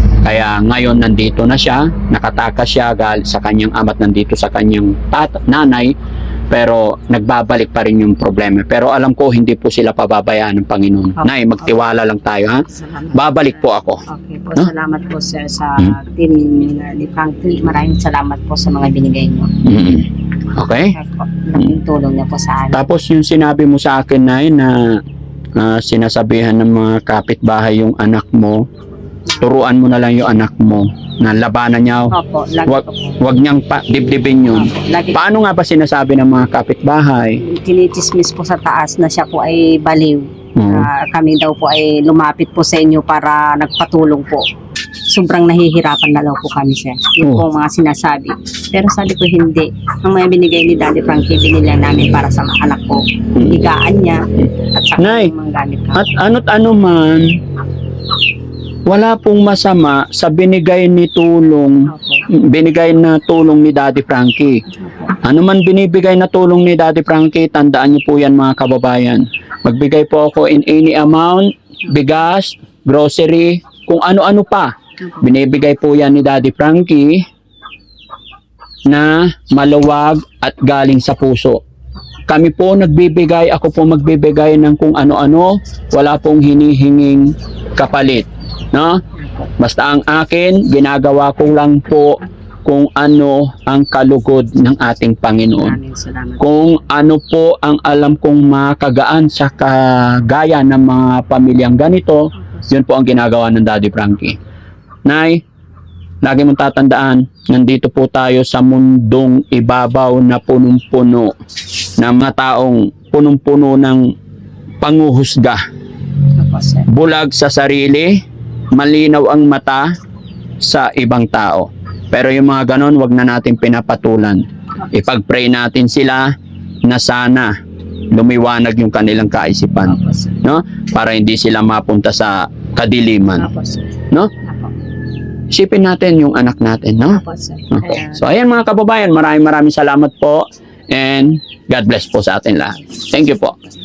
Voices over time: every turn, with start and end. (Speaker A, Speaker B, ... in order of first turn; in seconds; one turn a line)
Speaker A: 0.2-5.9
Speaker A: 6.5-14.0
Speaker B: 11.2-11.7
Speaker B: 12.7-13.5
Speaker B: 14.1-19.5
Speaker A: 19.6-20.9
Speaker B: 20.9-22.8
Speaker A: 22.7-25.0
Speaker A: 25.6-28.6
Speaker A: 29.4-32.1
Speaker B: 32.1-33.2
Speaker A: 32.6-37.4
Speaker B: 34.5-35.2
Speaker B: 37.4-44.5
Speaker A: 40.5-40.9
Speaker B: 45.1-56.1
Speaker A: 55.0-55.3
Speaker A: 55.9-57.4
Speaker A: 58.9-64.6
Speaker B: 61.9-62.2
Speaker B: 64.8-65.1
Speaker A: 65.2-77.2
Speaker A: 78.9-81.6
Speaker A: 82.3-89.0
Speaker A: 89.6-95.8
Speaker B: 95.6-96.5
Speaker A: 96.4-104.4
Speaker A: 105.0-105.4
Speaker A: 106.2-111.3
Speaker A: 112.0-114.1
Speaker A: 114.8-115.6
Speaker B: 116.4-116.9
Speaker A: 116.9-119.9
Speaker A: 120.6-127.5
Speaker A: 128.1-133.5
Speaker B: 129.9-130.4
Speaker B: 133.4-134.7
Speaker A: 135.5-143.6
Speaker B: 137.1-138.2